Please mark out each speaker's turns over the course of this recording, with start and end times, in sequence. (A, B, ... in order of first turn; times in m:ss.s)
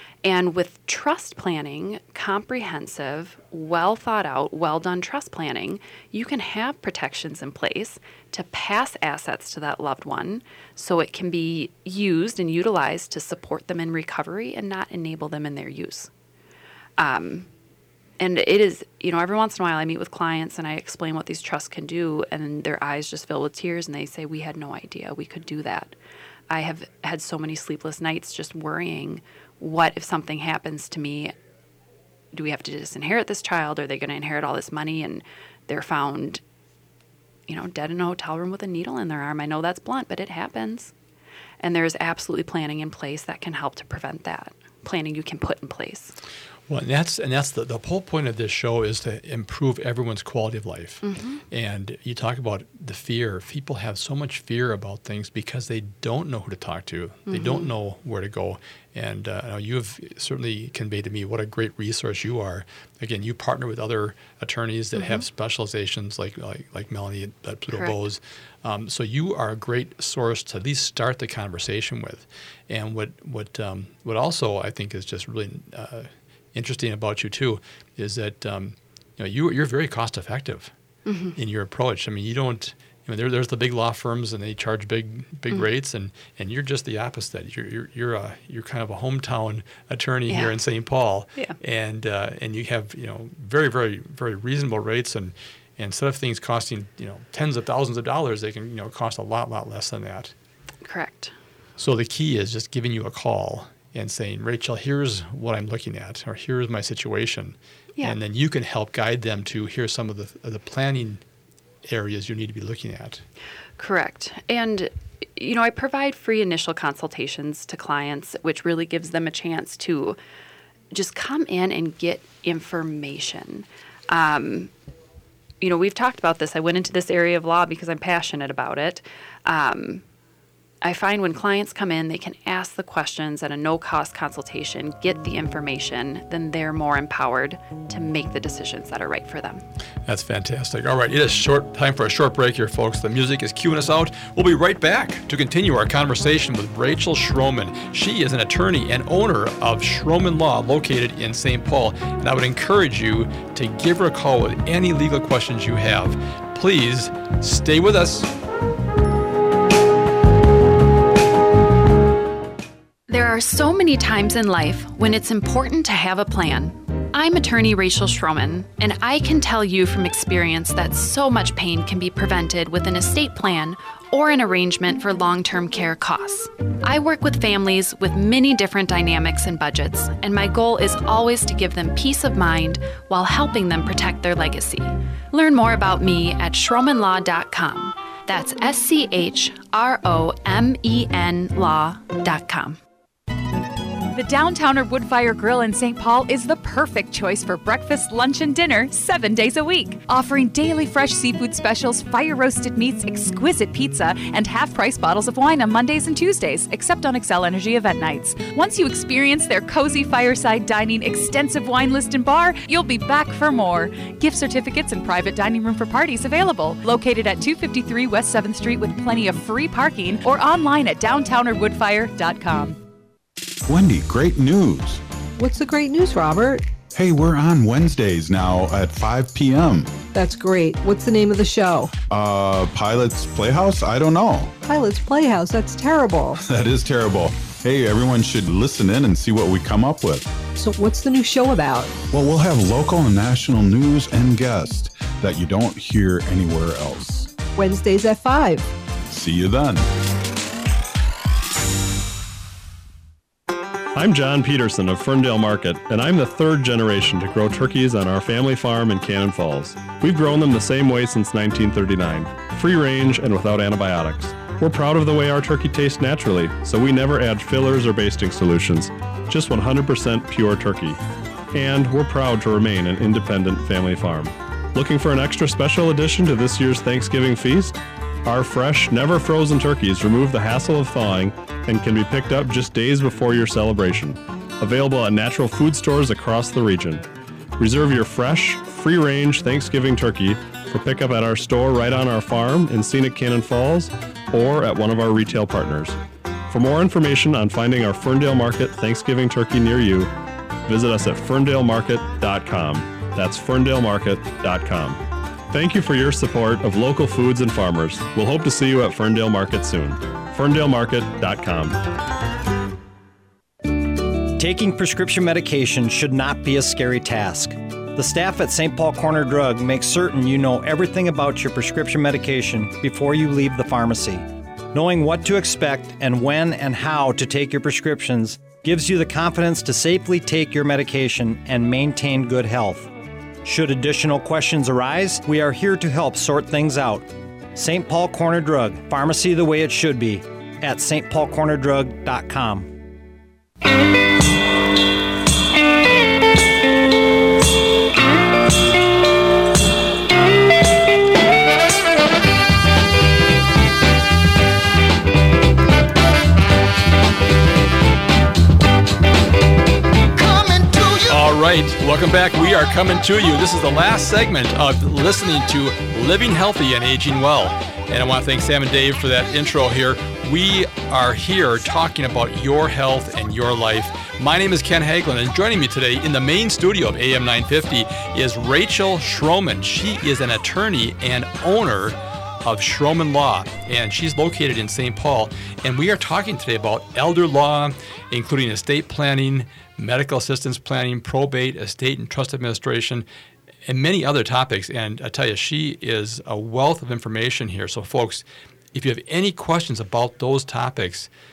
0:00.2-0:16.1 A
0:17.0-0:17.5 A
0:18.2-0:25.9 A
0:26.5-0:31.3 A
0:32.3-0:36.4 A
0:37.5-0:40.9 A
0:41.6-0:46.1 A
0:46.7-1:20.7 B
0:51.0-0:51.4 A
0:57.3-0:57.7 A
1:05.0-1:05.2 A
1:21.1-1:21.4 A
1:21.3-1:40.3 B
1:30.3-1:30.6 A
1:40.8-1:41.3 A
1:41.8-1:51.2 B
1:51.8-1:53.2 B
1:53.8-2:00.2 A
2:00.9-2:04.7 A
2:05.6-2:10.0 A
2:10.8-2:19.6 A
2:20.0-2:38.3 B
2:43.1-3:12.8 A
3:14.1-3:42.8 C
3:43.6-3:45.0 D
3:45.4-3:46.6 E
3:46.9-3:50.0 D
3:50.0-3:51.9 E
3:52.1-3:54.6 D
3:54.6-3:56.4 E
3:56.4-4:00.3 D
4:00.5-4:01.9 E
4:02.1-4:07.4 D
4:07.5-4:08.6 E
4:09.1-4:09.8 D
4:13.9-4:31.0 F
4:31.5-4:47.0 F
4:47.6-4:56.0 F
4:56.5-5:00.1 F
5:00.6-5:11.8 F
5:14.3-5:32.9 G
5:33.4-5:42.7 G
6:00.8-6:33.0 B
6:33.6-6:41.1 B